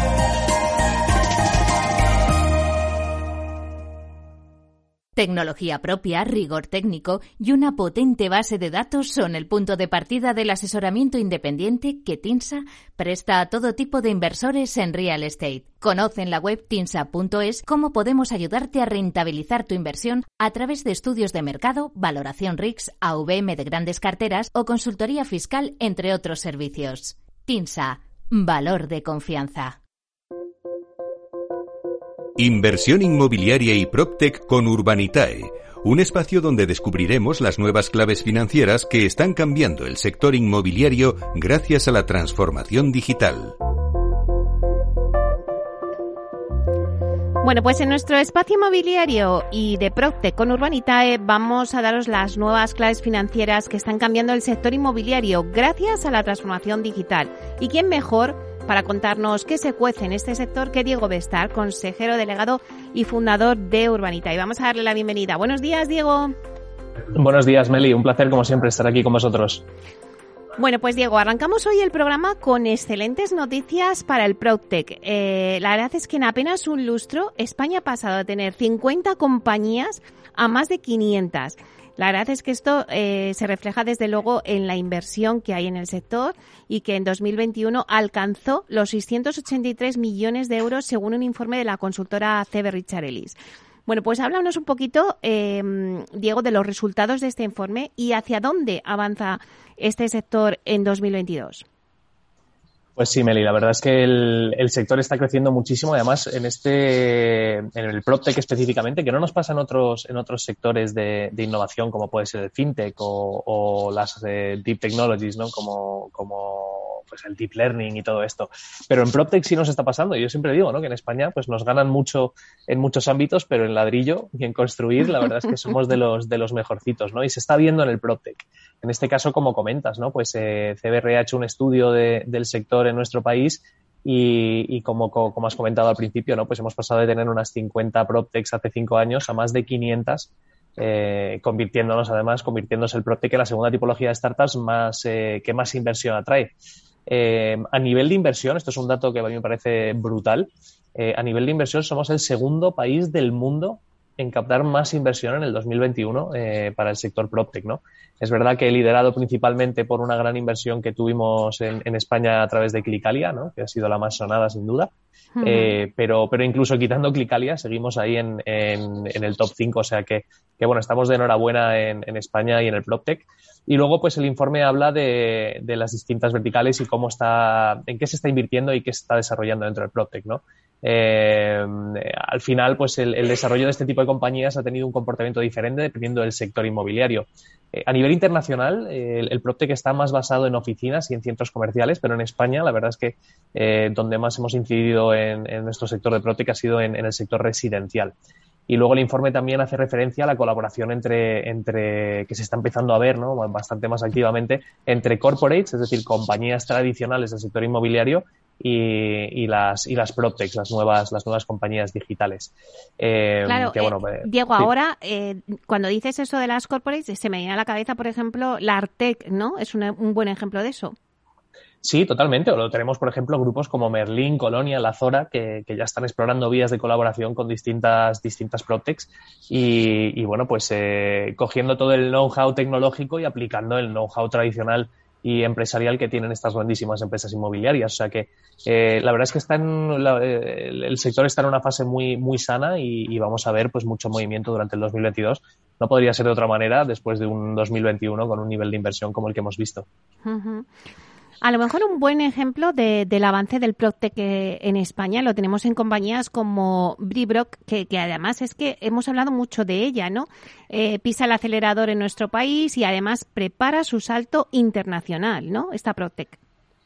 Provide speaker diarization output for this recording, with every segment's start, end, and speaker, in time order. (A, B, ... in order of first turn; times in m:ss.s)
0:05.2-0:29.8 A
0:32.4-0:43.6 B
0:47.4-1:06.3 C
1:07.1-1:09.6 D
1:10.6-1:33.4 C
1:33.9-1:41.6 C
1:43.0-2:26.5 D
2:27.1-3:18.1 D
2:45.4-2:45.8 C
3:18.7-3:34.7 D
3:33.4-3:41.0 C
3:41.8-4:09.8 D
4:10.2-4:10.7 C
4:11.4-4:26.4 C